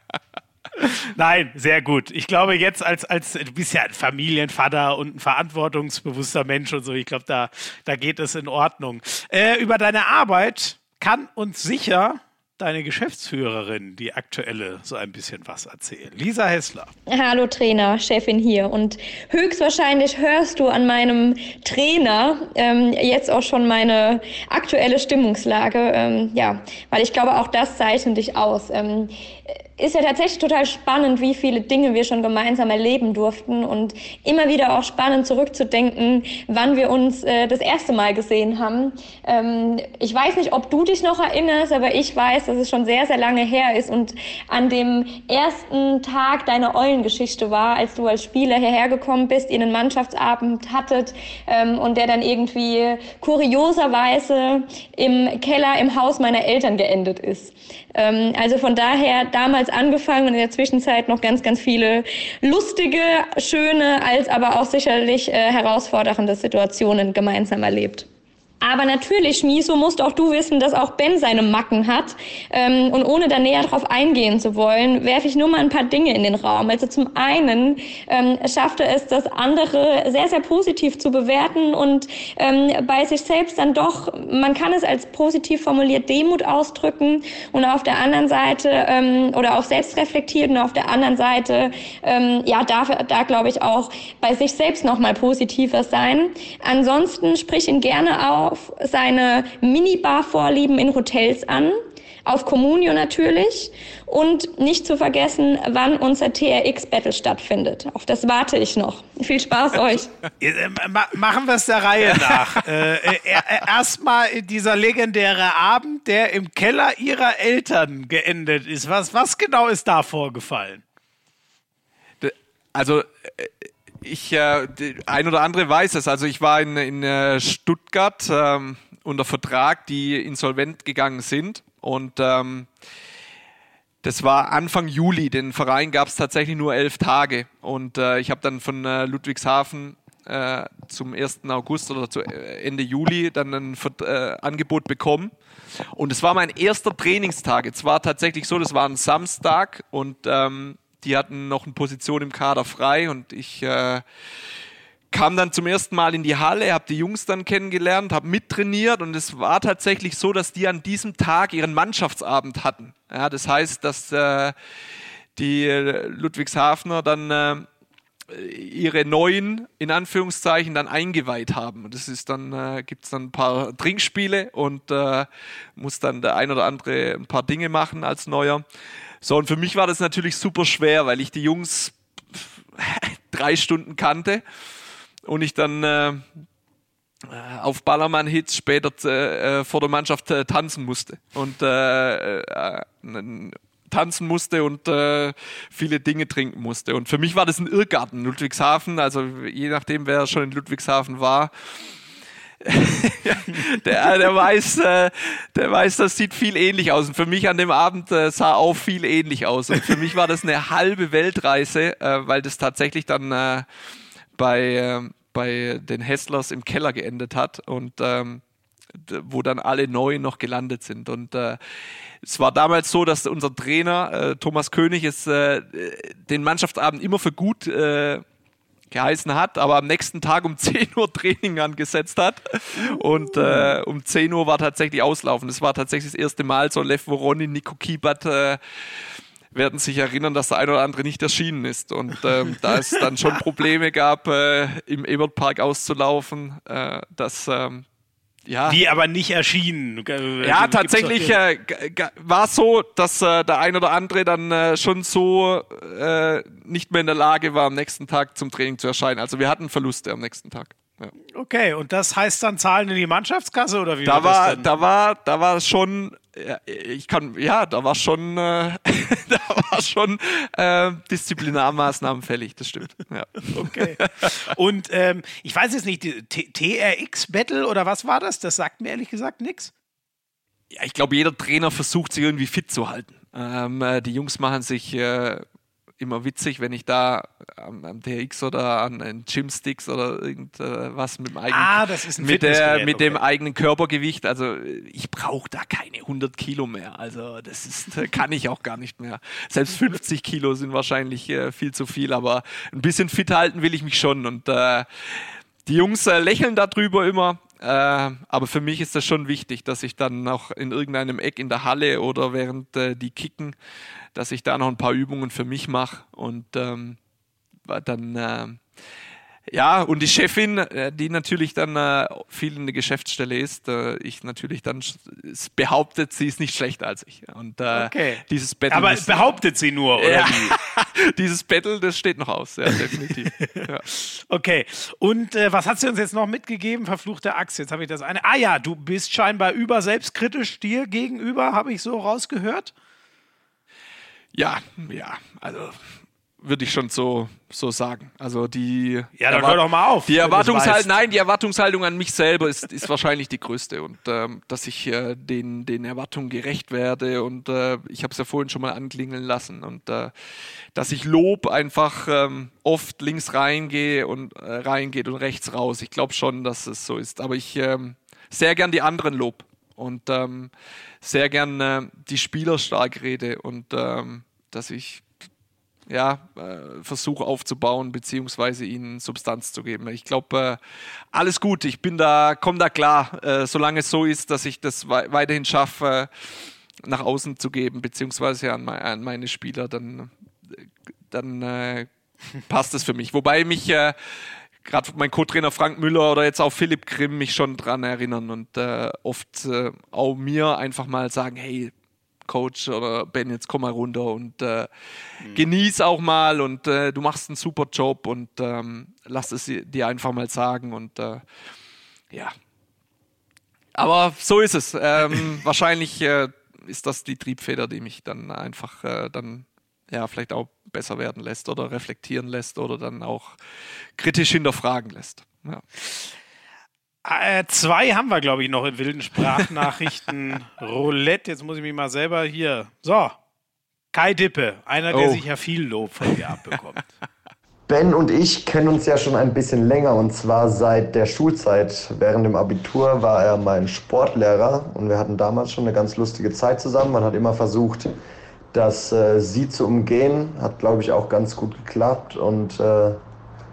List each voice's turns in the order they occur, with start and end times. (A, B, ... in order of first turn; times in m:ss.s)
0:00.8-0:16.9 A
0:17.1-1:08.1 B
1:08.6-1:50.1 B
1:50.4-2:00.8 A
1:52.1-1:52.6 C
2:02.2-2:12.7 C
2:14.0-2:25.3 C
2:25.9-2:34.0 C
2:35.1-2:44.5 C
2:45.4-2:47.7 C
2:48.3-2:58.6 C
2:59.2-3:04.4 C
3:05.2-3:06.3 C
3:07.3-3:21.7 C
3:22.6-3:33.7 C
3:34.3-3:38.4 C
3:38.9-3:41.6 C
3:42.2-3:48.2 C
3:48.9-4:07.8 C
3:53.4-3:53.7 A
4:08.5-4:08.8 C
4:08.7-4:11.4 A
4:10.4-4:21.1 C
4:21.3-4:24.7 A
4:24.0-4:34.4 C
4:33.5-4:39.7 A
4:40.7-4:45.4 C
4:46.0-5:13.6 C
4:51.5-4:53.2 A
5:14.1-5:17.0 C
5:17.6-5:18.6 C
5:19.5-5:29.4 C
5:27.7-5:30.5 A
5:30.0-5:33.9 C
5:33.4-5:42.7 A
5:44.3-5:45.8 C
5:46.4-6:00.1 C
5:49.2-5:50.9 A
6:00.7-6:15.1 C
6:15.9-6:20.6 C
6:21.1-6:31.9 C
6:32.4-6:34.0 C
6:34.6-6:41.7 C
6:42.2-6:44.7 C
6:45.2-6:51.2 C
6:53.7-7:03.4 C
7:04.0-7:05.6 C
7:07.0-7:13.2 A
7:13.9-7:16.9 A
7:14.9-7:15.2 C
7:17.7-7:27.9 D
7:28.5-7:33.0 D